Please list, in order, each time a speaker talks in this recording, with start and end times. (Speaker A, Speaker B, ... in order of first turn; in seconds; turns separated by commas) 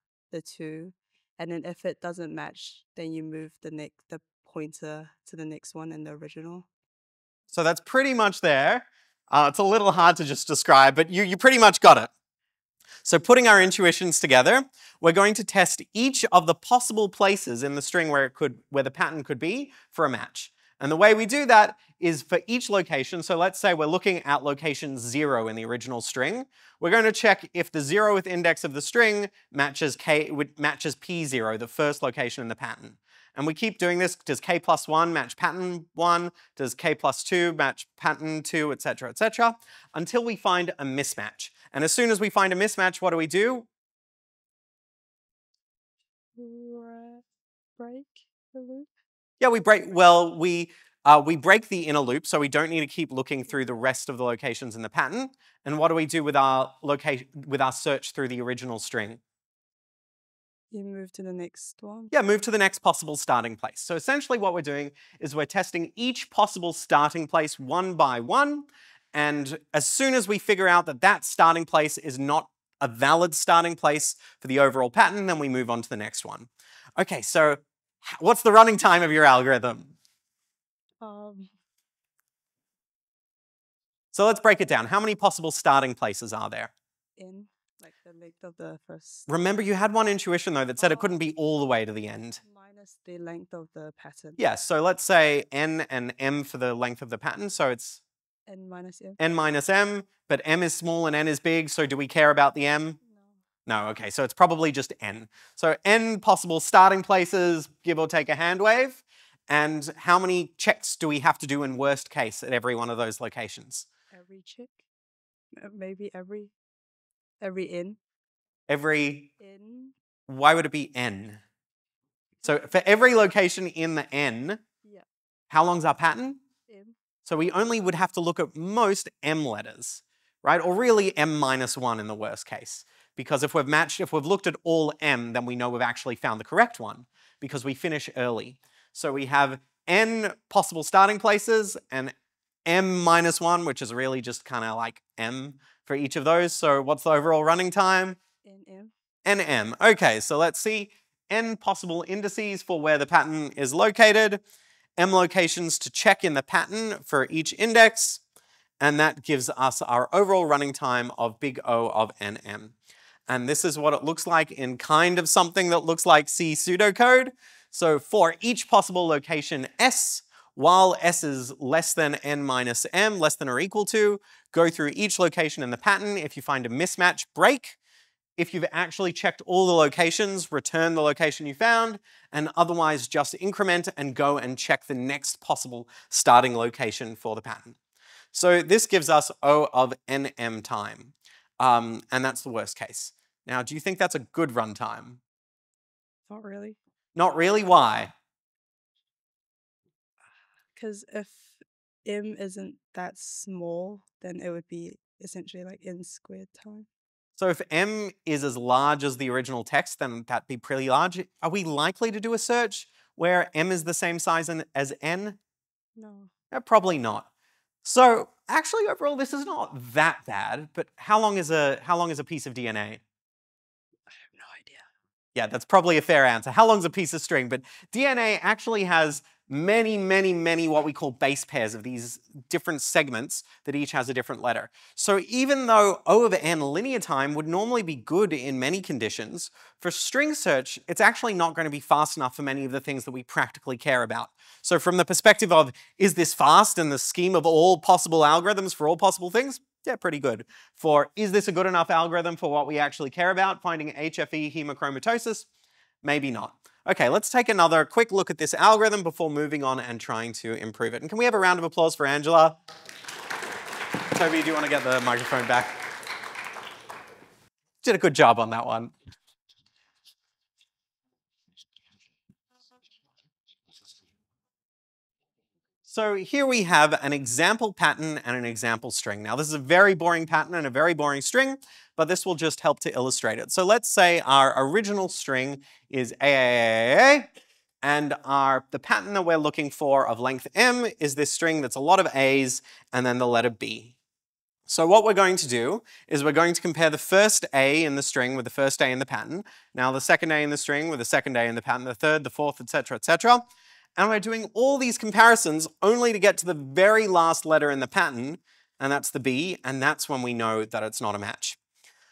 Speaker A: 0.3-6.7, Speaker B: 7.5-12.1, Speaker B: 13.0-43.7, Speaker A: 46.4-47.2, Speaker A: 47.8-48.9, Speaker B: 49.4-59.2, Speaker A: 60.7-62.1, Speaker B: 62.1-80.0, Speaker A: 81.0-81.5, Speaker B: 84.1-86.7, Speaker A: 87.2-89.3, Speaker B: 89.3-92.4, Speaker A: 90.8-91.2, Speaker A: 92.4-94.4, Speaker B: 94.4-98.0, Speaker A: 98.5-99.2, Speaker B: 99.2-103.0, Speaker A: 103.0-103.3, Speaker B: 103.7-113.9, Speaker A: 114.1-114.8, Speaker A: 115.6-116.5, Speaker A: 117.4-118.0, Speaker B: 118.7-119.3, Speaker A: 119.4-119.9, Speaker B: 120.3-121.4, Speaker B: 122.4-124.6, Speaker B: 125.5-126.4, Speaker A: 126.7-127.0, Speaker B: 127.3-142.1, Speaker B: 142.7-148.2, Speaker A: 148.4-148.9, Speaker B: 149.3-154.4, Speaker B: 155.0-158.2, Speaker B: 158.8-162.8, Speaker B: 163.3-177.8, Speaker B: 178.4-187.8, Speaker B: 188.3-195.2, Speaker A: 196.3-196.8, Speaker B: 197.2-198.1, Speaker A: 200.8-206.9, Speaker B: 207.4-215.4, Speaker A: 216.0-216.3, Speaker B: 216.5-217.3, Speaker B: 217.8-223.0, Speaker A: 224.3-224.8, Speaker B: 225.3-255.5, Speaker B: 256.0-262.6, Speaker B: 264.1-265.8, Speaker B: 267.8-268.9, Speaker B: 275.9-287.3, Speaker B: 287.8-293.9, Speaker B: 294.7-303.4, Speaker B: 304.0-311.6